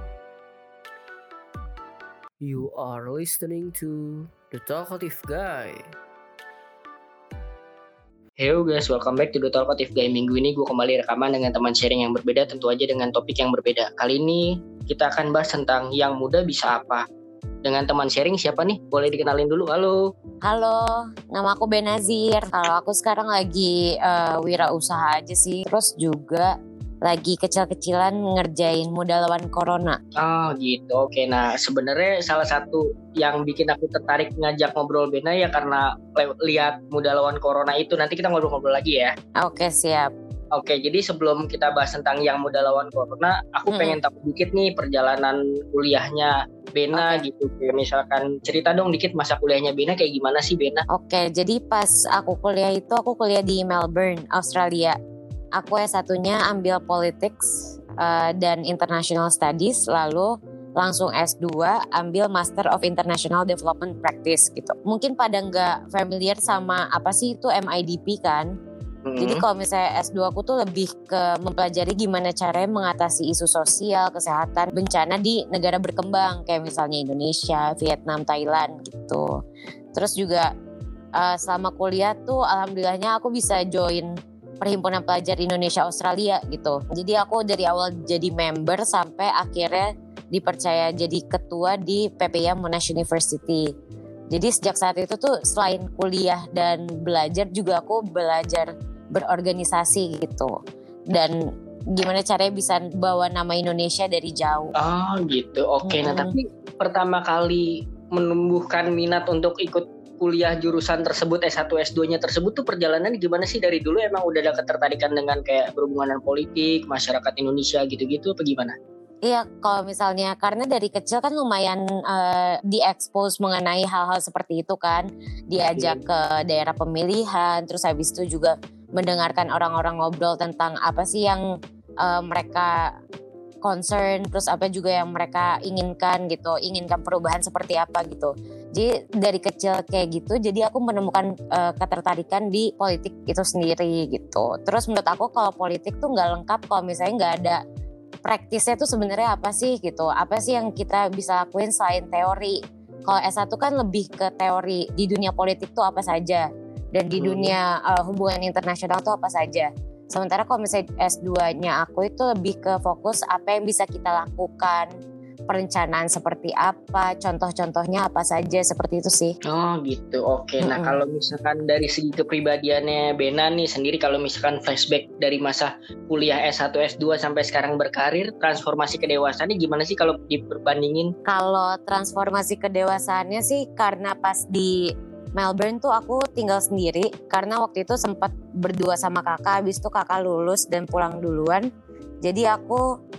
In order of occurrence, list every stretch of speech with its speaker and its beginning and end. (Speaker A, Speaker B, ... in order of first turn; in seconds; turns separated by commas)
Speaker A: 2.4-6.0, Speaker B: 8.4-17.1, Speaker B: 17.6-20.0, Speaker C: 20.4-26.5, Speaker C: 27.0-30.0, Speaker B: 30.1-39.1, Speaker C: 39.4-40.1, Speaker B: 40.5-50.8, Speaker C: 43.7-44.0, Speaker C: 46.9-47.2, Speaker C: 50.9-55.0, Speaker C: 55.6-68.5, Speaker B: 69.0-69.4, Speaker C: 69.2-79.3, Speaker C: 79.9-80.5, Speaker C: 81.2-93.7, Speaker C: 94.3-100.5, Speaker C: 101.1-104.7, Speaker B: 104.8-118.8, Speaker C: 105.8-106.3, Speaker C: 119.2-131.4, Speaker B: 125.7-126.0, Speaker C: 132.0-132.9, Speaker C: 133.6-147.6, Speaker C: 148.2-164.9, Speaker B: 157.1-157.6, Speaker C: 165.5-169.3, Speaker B: 169.4-181.1, Speaker C: 170.6-171.0, Speaker C: 181.3-184.8, Speaker C: 185.3-191.7, Speaker C: 192.2-192.8